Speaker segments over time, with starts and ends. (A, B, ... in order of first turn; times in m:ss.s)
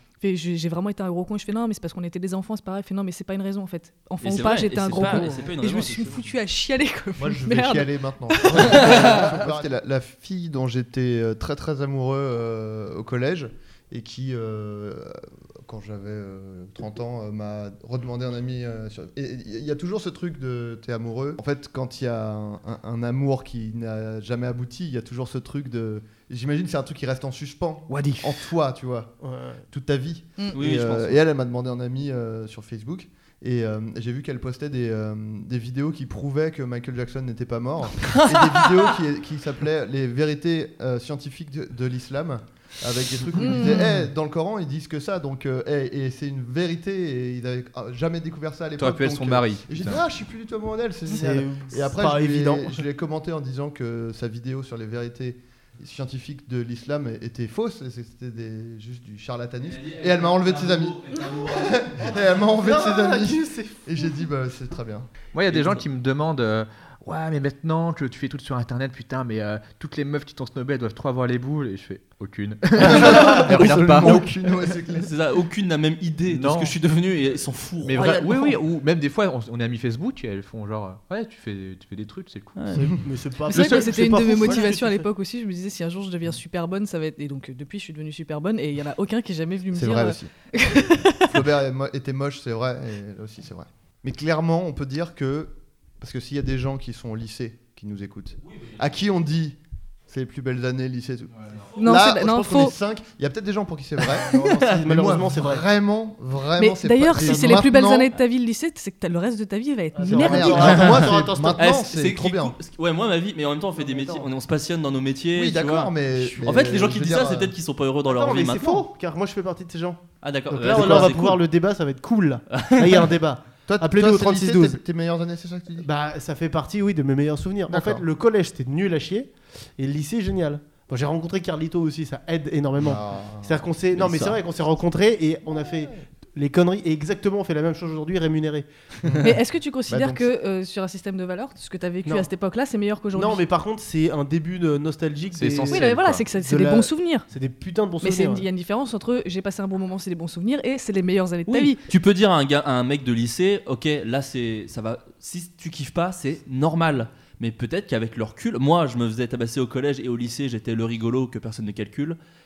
0:00.2-0:09.3 A
0:04.2-0:06.3 B
0:05.0-0:05.3 C
0:07.2-0:29.1 D
0:08.7-0:09.3 B
0:27.9-0:28.5 E
0:29.2-0:29.6 C
0:29.7-1:05.1 D
0:30.5-0:31.2 B
0:38.0-0:38.9 B
0:43.4-0:44.0 A
0:48.8-0:50.0 E
0:51.1-0:52.8 C
0:59.8-1:01.8 B
1:02.4-1:03.8 C
1:05.3-1:14.4 E
1:05.5-1:05.8 B
1:12.8-1:15.1 D
1:14.9-1:18.6 B
1:16.3-1:16.8 E
1:17.8-1:22.8 E
1:22.6-1:22.9 B
1:22.8-1:25.0 C
1:23.5-1:31.3 A
1:23.5-1:24.5 E
1:29.7-1:30.3 D
1:31.0-1:48.1 D
1:41.8-1:42.7 A
1:44.2-1:45.6 C
1:44.3-1:44.8 B
1:46.6-1:50.9 A
1:47.2-1:47.5 C
1:49.9-1:51.7 C
1:50.0-1:52.6 D
1:50.6-1:58.8 B
1:53.8-1:54.3 C
1:55.3-1:57.5 D
1:58.1-2:04.8 C
2:00.2-2:01.4 B
2:02.5-2:03.1 B
2:03.7-2:05.9 D
2:05.8-2:18.7 C
2:07.7-2:08.0 D
2:12.8-2:13.7 D
2:13.9-2:14.4 B
2:19.2-2:23.4 A
2:19.9-2:20.3 D
2:23.1-2:28.4 C
2:25.3-2:26.3 E
2:25.7-2:27.3 A
2:28.0-2:31.8 A
2:31.5-2:42.2 B